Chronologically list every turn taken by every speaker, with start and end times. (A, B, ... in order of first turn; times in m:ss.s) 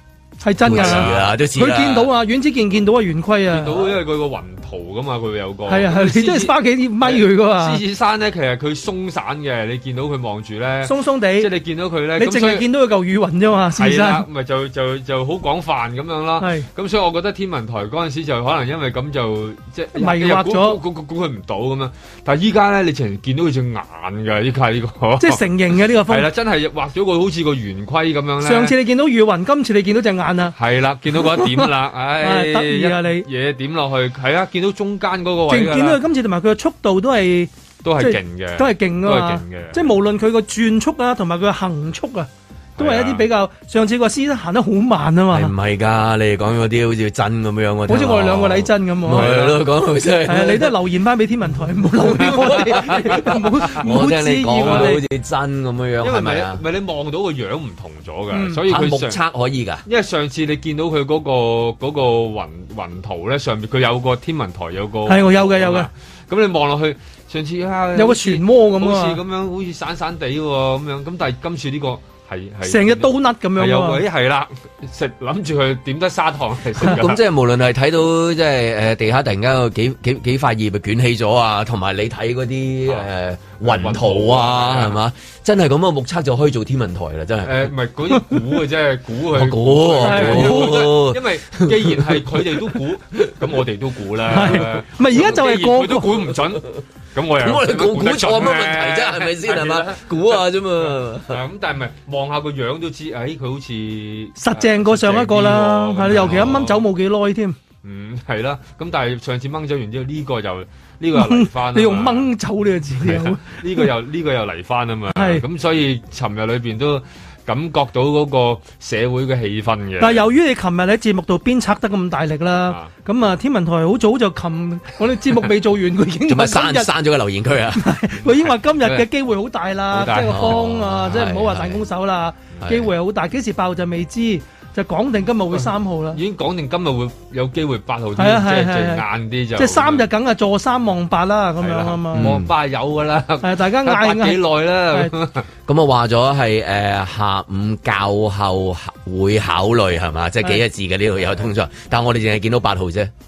0:00.4-0:03.8 A
0:00.6-0:02.1 B
0:00.7-0:01.3 C
0:03.5-0:12.6 C
0:05.7-0:07.8 A
0:10.8-0:11.5 A
0:12.2-0:14.2 A
0:13.8-0:25.4 C
0:16.4-0:16.7 A
0:19.9-0:20.8 A
0:25.2-0:26.3 A
0:26.1-0:28.8 C
0:28.4-0:30.6 A
0:30.6-0:36.0 C
0:31.1-0:33.3 A
0:35.5-0:45.5 A
0:37.8-0:39.8 C
0:42.8-0:43.3 C
0:45.3-0:50.8 B
0:47.9-0:49.3 A
0:49.1-0:49.6 C
0:50.3-0:55.0 A
0:51.9-0:56.6 B
0:52.1-0:53.3 C
0:54.6-0:54.9 C
0:56.0-0:59.2 C
0:58.3-0:58.6 A
0:58.7-0:59.8 B
0:59.9-1:17.2 C
1:05.1-1:05.9 A
1:08.0-1:09.2 A
1:12.6-1:14.0 A
1:16.8-1:27.7 B
1:23.6-1:25.0 C
1:27.4-1:40.4 C
1:29.3-1:33.5 B
1:30.0-1:30.9 A
1:34.3-1:36.2 A
1:37.4-1:41.4 B
1:41.3-1:46.8 C
1:44.4-1:47.6 A
1:47.8-1:52.3 C
1:51.1-1:53.9 A
1:53.0-2:00.2 C
1:55.1-1:55.4 A
2:00.0-2:06.9 A
2:06.3-2:07.9 B
2:07.8-2:16.2 A
2:08.8-2:09.1 C
2:09.9-2:10.6 C
2:10.2-2:11.8 B
2:12.6-2:12.9 B
2:16.1-2:20.1 C
2:18.2-2:19.0 A
2:19.6-2:22.3 A
2:21.6-2:25.5 C
2:22.2-2:22.5 B
2:23.4-2:25.1 A
2:25.7-2:33.1 B